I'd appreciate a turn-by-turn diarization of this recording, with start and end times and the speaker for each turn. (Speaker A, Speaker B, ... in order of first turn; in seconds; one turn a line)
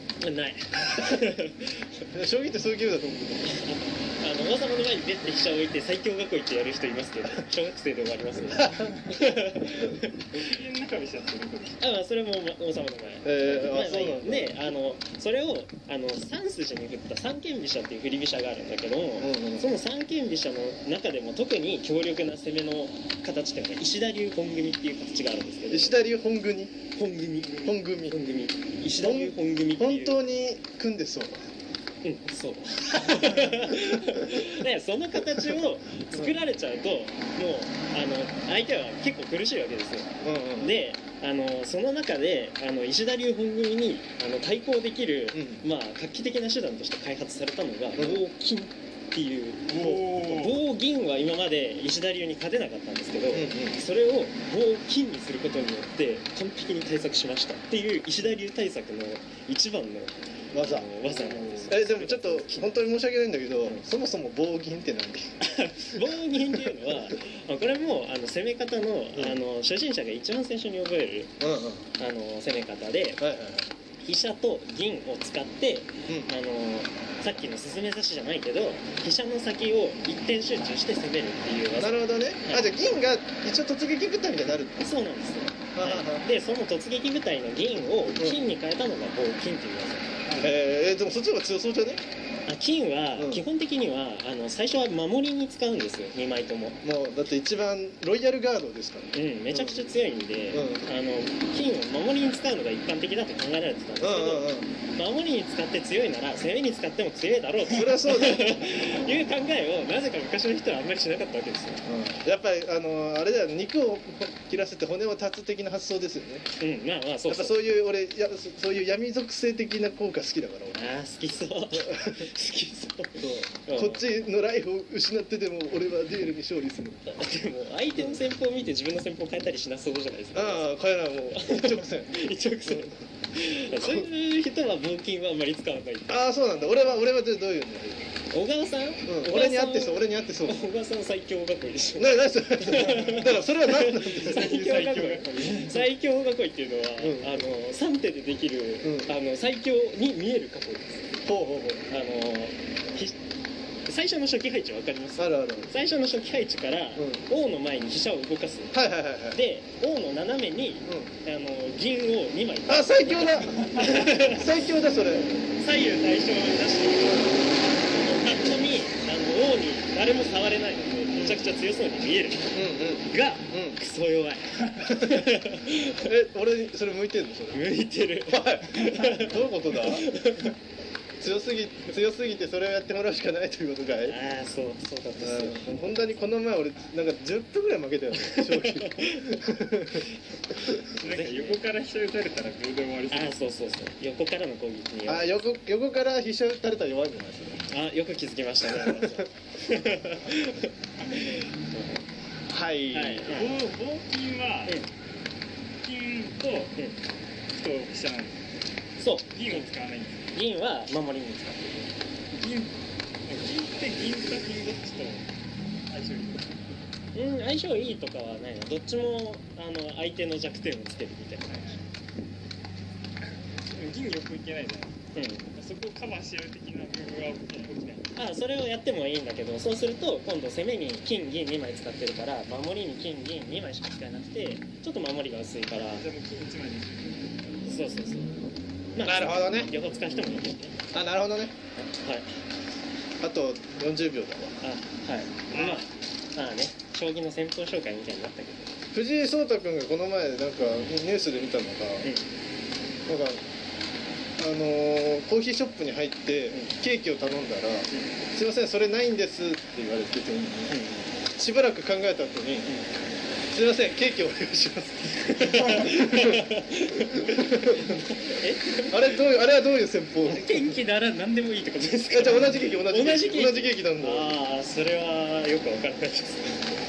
Speaker A: 0.2-2.0
Speaker B: 2.1-3.5
Speaker A: 3.4-10.4
Speaker C: 10.3-11.8
Speaker A: 11.8-26.0
Speaker B: 13.2-14.8
Speaker B: 19.2-19.7
Speaker B: 25.7-26.7
Speaker A: 26.9-30.2
Speaker B: 27.6-28.2
Speaker B: 28.9-31.4
Speaker A: 32.0-62.8
Speaker B: 32.9-34.5
Speaker B: 40.2-40.8
Speaker B: 45.3-45.6
Speaker B: 48.0-48.2
Speaker C: 49.7-50.7
Speaker B: 49.8-50.1
Speaker B: 53.3-53.8
Speaker B: 60.5-60.9
Speaker C: 61.0-61.7
Speaker B: 61.7-65.3
Speaker A: 65.4-71.3
Speaker B: 65.9-67.0
Speaker B: 69.1-69.4
Speaker B: 71.4-71.9
Speaker A: 72.0-73.2
Speaker B: 73.2-73.7
Speaker A: 74.0-82.7
Speaker B: 76.1-76.3
Speaker B: 81.8-84.9
Speaker A: 84.8-90.1
Speaker B: 85.7-86.3
Speaker B: 88.2-88.4
Speaker C: 90.2-90.6
Speaker B: 90.4-92.0
Speaker A: 92.5-96.8
Speaker B: 93.2-93.4
Speaker B: 96.8-99.9
Speaker A: 99.1-111.8
Speaker B: 100.5-100.9
Speaker B: 104.0-104.7
Speaker B: 107.6-108.8
Speaker B: 111.9-116.5
Speaker A: 116.6-117.6
Speaker B: 117.3-121.0
Speaker A: 120.7-124.0
Speaker B: 121.7-122.3
Speaker B: 123.2-127.2
Speaker A: 127.0-130.8
Speaker B: 128.0-128.2
Speaker B: 130.3-132.9
Speaker A: 131.3-136.9
Speaker B: 133.7-134.1
Speaker B: 136.1-138.0
Speaker A: 138.3-151.2
Speaker B: 139.1-140.7
Speaker B: 142.0-144.5
Speaker C: 142.8-143.4
Speaker C: 144.0-145.9
Speaker B: 147.0-147.4
Speaker B: 148.8-149.1
Speaker B: 151.2-151.9
Speaker A: 151.9-153.2
Speaker A: 153.8-176.1
Speaker B: 155.2-155.7
Speaker B: 156.9-157.2
Speaker B: 158.7-159.4
Speaker B: 162.7-165.3
Speaker C: 163.6-163.9
Speaker B: 172.5-173.8
Speaker B: 174.9-175.3
Speaker B: 176.0-177.6
Speaker A: 177.5-180.6
Speaker B: 178.3-180.1
Speaker B: 181.2-184.2
Speaker A: 184.0-186.0
Speaker B: 185.2-190.8
Speaker A: 188.2-189.4
Speaker A: 190.3-191.6
Speaker C: 190.9-193.8
Speaker A: 193.1-195.4
Speaker B: 195.1-197.7
Speaker A: 197.7-202.0
Speaker B: 198.6-199.2
Speaker B: 202.5-203.4
Speaker A: 202.9-203.6
Speaker C: 203.3-204.8
Speaker C: 205.8-206.8
Speaker C: 207.5-208.6
Speaker A: 209.0-209.7
Speaker C: 209.3-210.4
Speaker A: 210.3-211.9
Speaker C: 212.3-215.3
Speaker C: 215.9-216.6
Speaker A: 217.1-221.8
Speaker C: 223.2-228.1
Speaker A: 225.1-225.5
Speaker A: 228.1-236.1
Speaker C: 236.0-237.9
Speaker A: 237.7-238.4
Speaker A: 238.9-240.8
Speaker B: 239.0-239.7
Speaker B: 240.9-241.5
Speaker A: 241.8-242.3
Speaker B: 243.2-244.6
Speaker A: 244.6-248.7
Speaker C: 245.5-245.9
Speaker B: 248.9-252.1
Speaker B: 253.1-253.4
Speaker B: 254.4-260.8
Speaker A: 260.7-261.1
Speaker B: 261.3-262.7
Speaker A: 262.6-262.9
Speaker B: 263.5-268.0
Speaker A: 265.1-269.2
Speaker B: 268.8-270.8
Speaker A: 270.2-276.7
Speaker B: 272.1-274.4